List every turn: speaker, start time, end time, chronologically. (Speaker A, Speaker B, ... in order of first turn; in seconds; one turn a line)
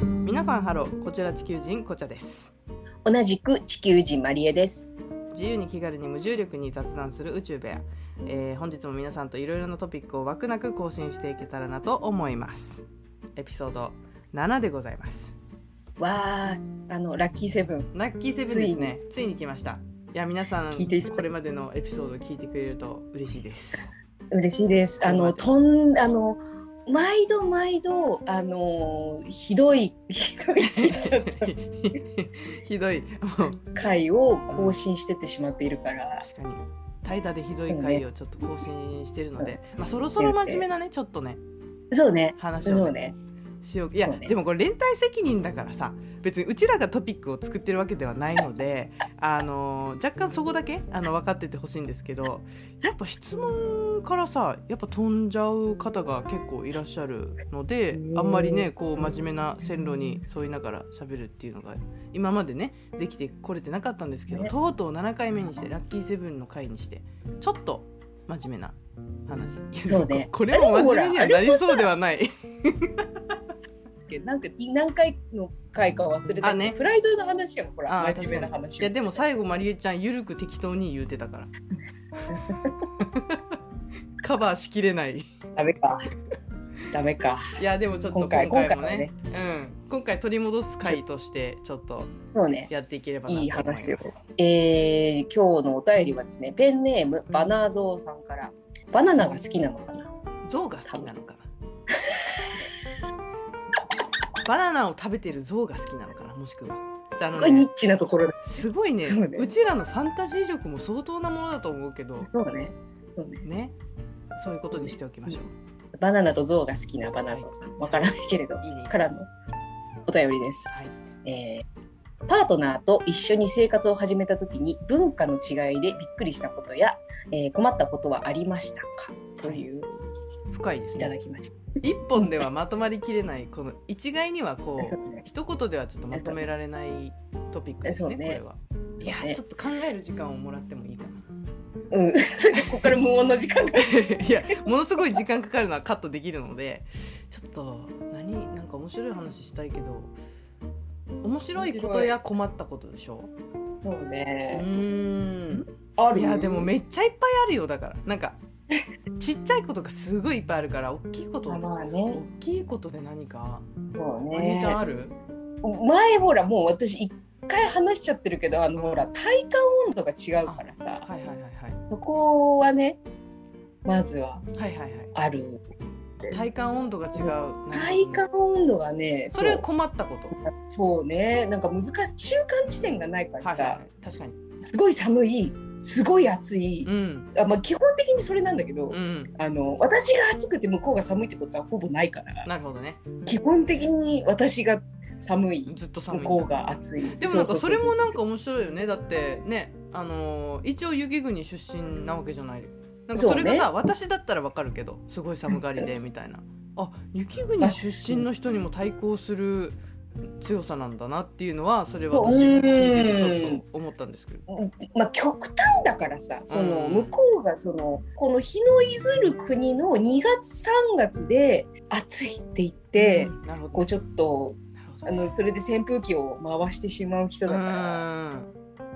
Speaker A: 0.2-2.5
Speaker B: 3.0-4.9
Speaker A: 5.3-12.8
Speaker A: 13.4-15.3
Speaker B: 16.0-17.9
Speaker A: 17.9-23.9
Speaker B: 18.4-18.9
Speaker B: 20.7-21.3
Speaker B: 24.3-31.5
Speaker A: 25.0-25.5
Speaker A: 30.6-33.6
Speaker B: 33.8-36.3
Speaker A: 34.5-34.8
Speaker A: 36.2-41.4
Speaker B: 37.7-38.0
Speaker B: 40.2-40.7
Speaker B: 41.9-43.2
Speaker A: 42.4-42.9
Speaker A: 43.6-73.3
Speaker B: 44.1-44.3
Speaker B: 57.9-58.7
Speaker B: 69.8-71.9
Speaker B: 74.1-79.2
Speaker A: 76.4-76.8
Speaker A: 77.9-81.5
Speaker A: 82.2-83.6
Speaker B: 82.3-82.7
Speaker A: 84.2-85.3
Speaker B: 85.6-86.0
Speaker B: 86.9-87.6
Speaker A: 87.6-92.1
Speaker B: 88.1-89.1
Speaker B: 92.3-92.7
Speaker A: 92.7-94.2
Speaker B: 93.3-100.1
Speaker A: 100.5-101.5
Speaker B: 102.0-102.4
Speaker A: 104.4-107.7
Speaker B: 107.4-108.4
Speaker A: 108.4-112.3
Speaker B: 109.0-109.5
Speaker B: 112.2-113.4
Speaker A: 113.4-113.7
Speaker A: 114.4-115.5
Speaker B: 116.0-119.3
Speaker A: 117.3-119.0
Speaker B: 120.1-120.7
Speaker B: 121.2-121.7
Speaker B: 122.3-129.9
Speaker A: 129.4-129.6
Speaker A: 130.5-131.2
Speaker B: 130.9-131.6
Speaker A: 131.8-141.2
Speaker B: 132.2-132.4
Speaker B: 134.8-135.2
Speaker B: 137.8-138.4
Speaker B: 139.0-139.4
Speaker B: 141.9-143.9
Speaker A: 142.6-142.9
Speaker A: 143.8-150.1
Speaker A: 151.2-153.3
Speaker B: 151.6-152.2
Speaker B: 153.8-154.7
Speaker A: 154.5-158.4
Speaker B: 156.0-156.7
Speaker A: 159.2-163.7
Speaker B: 161.5-162.2
Speaker B: 164.0-164.8
Speaker A: 164.3-165.2
Speaker B: 165.6-171.1
Speaker A: 168.8-169.1
Speaker A: 170.5-171.8
Speaker B: 171.9-173.0
Speaker B: 173.8-174.4
Speaker A: 174.6-175.1
Speaker B: 175.2-175.6
Speaker A: 176.2-178.2
Speaker B: 177.1-179.7
Speaker A: 179.3-180.4
Speaker B: 180.3-183.8
Speaker A: 183.4-184.4
Speaker B: 184.6-192.5
Speaker A: 186.8-187.3
Speaker A: 188.9-189.3
Speaker A: 192.5-193.1
Speaker B: 193.2-198.2
Speaker A: 195.7-196.5
Speaker A: 197.1-209.8
Speaker B: 203.2-203.7
Speaker B: 207.6-208.3
Speaker A: 210.4-214.5
Speaker B: 212.1-213.6
Speaker B: 214.5-228.1
Speaker A: 216.5-217.2
Speaker A: 222.9-223.9
Speaker A: 224.8-225.3
Speaker A: 227.5-228.5